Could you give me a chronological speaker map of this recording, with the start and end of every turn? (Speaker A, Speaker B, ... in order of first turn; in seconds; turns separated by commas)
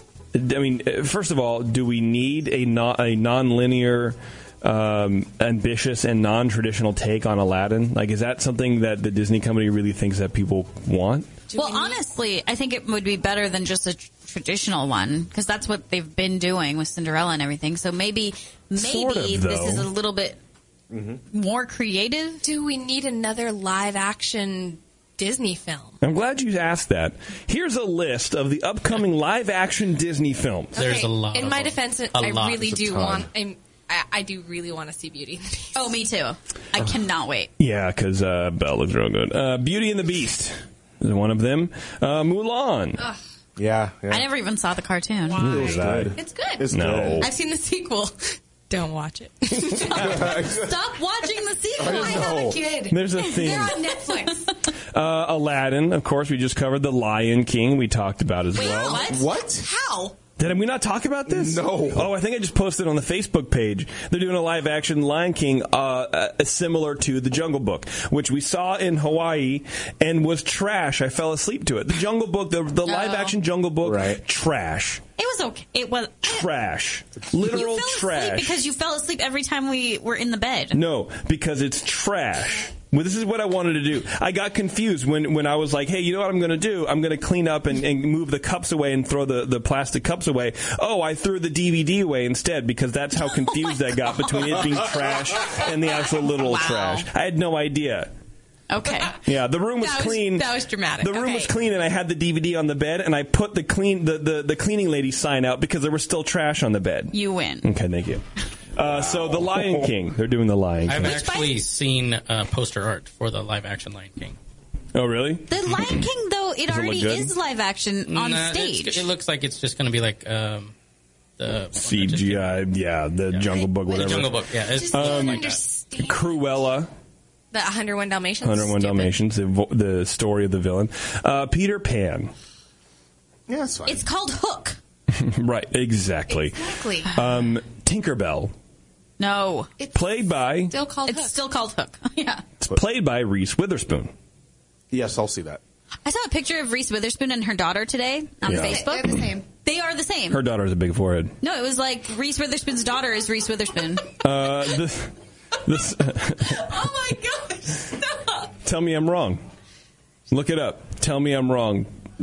Speaker A: 0.3-11.3, Speaker B: 11.5-12.0, Speaker C: 11.5-20.4, Speaker A: 18.8-19.9, Speaker D: 20.9-21.2, Speaker C: 21.3-22.4, Speaker B: 22.4-26.0, Speaker A: 26.0-30.8, Speaker B: 30.7-36.0, Speaker E: 30.8-32.8, Speaker D: 32.6-33.3, Speaker C: 35.7-37.5, Speaker A: 37.6-43.1, Speaker D: 43.6-44.3, Speaker C: 44.1-45.5, Speaker B: 45.3-54.6, Speaker D: 45.4-47.3, Speaker A: 45.4-46.2, Speaker A: 46.7-47.3, Speaker C: 49.7-52.5, Speaker D: 49.9-50.7, Speaker D: 51.8-52.6, Speaker A: 52.9-53.8, Speaker C: 53.4-53.8, Speaker A: 54.9-59.0, Speaker C: 58.5-59.3, Speaker B: 58.6-60.2, Speaker D: 59.0-59.7, Speaker A: 60.4-75.0, Speaker D: 61.3-62.1, Speaker C: 72.9-73.3, Speaker D: 73.8-74.2, Speaker C: 75.2-76.5, Speaker A: 76.2-78.6, Speaker C: 77.4-80.8, Speaker A: 80.7-98.1, Speaker C: 93.3-94.7, Speaker C: 96.5-96.9, Speaker C: 98.7-99.2, Speaker B: 98.9-101.5, Speaker A: 99.2-111.2, Speaker C: 107.1-107.7, Speaker D: 108.8-109.9, Speaker E: 110.9-114.4, Speaker C: 111.0-111.6, Speaker A: 114.9-116.0, Speaker C: 115.5-119.1, Speaker A: 116.7-117.3, Speaker E: 118.1-120.7, Speaker E: 121.4-122.7, Speaker A: 121.7-124.4, Speaker E: 123.3-125.6, Speaker B: 123.9-126.6, Speaker A: 124.9-125.5, Speaker A: 126.0-126.9, Speaker B: 127.5-129.1, Speaker A: 128.4-132.3, Speaker D: 133.5-134.0, Speaker C: 133.9-134.8, Speaker A: 135.1-138.5, Speaker B: 136.3-137.1, Speaker C: 139.2-139.7, Speaker B: 139.8-141.4, Speaker A: 139.9-140.8, Speaker C: 141.1-142.4, Speaker A: 142.6-144.1, Speaker D: 144.9-145.6, Speaker C: 146.1-150.4, Speaker A: 148.4-149.2, Speaker B: 148.5-149.4, Speaker A: 150.3-151.3, Speaker C: 151.4-154.1, Speaker A: 154.2-156.7, Speaker B: 156.4-158.5, Speaker A: 158.6-159.4, Speaker A: 160.3-161.9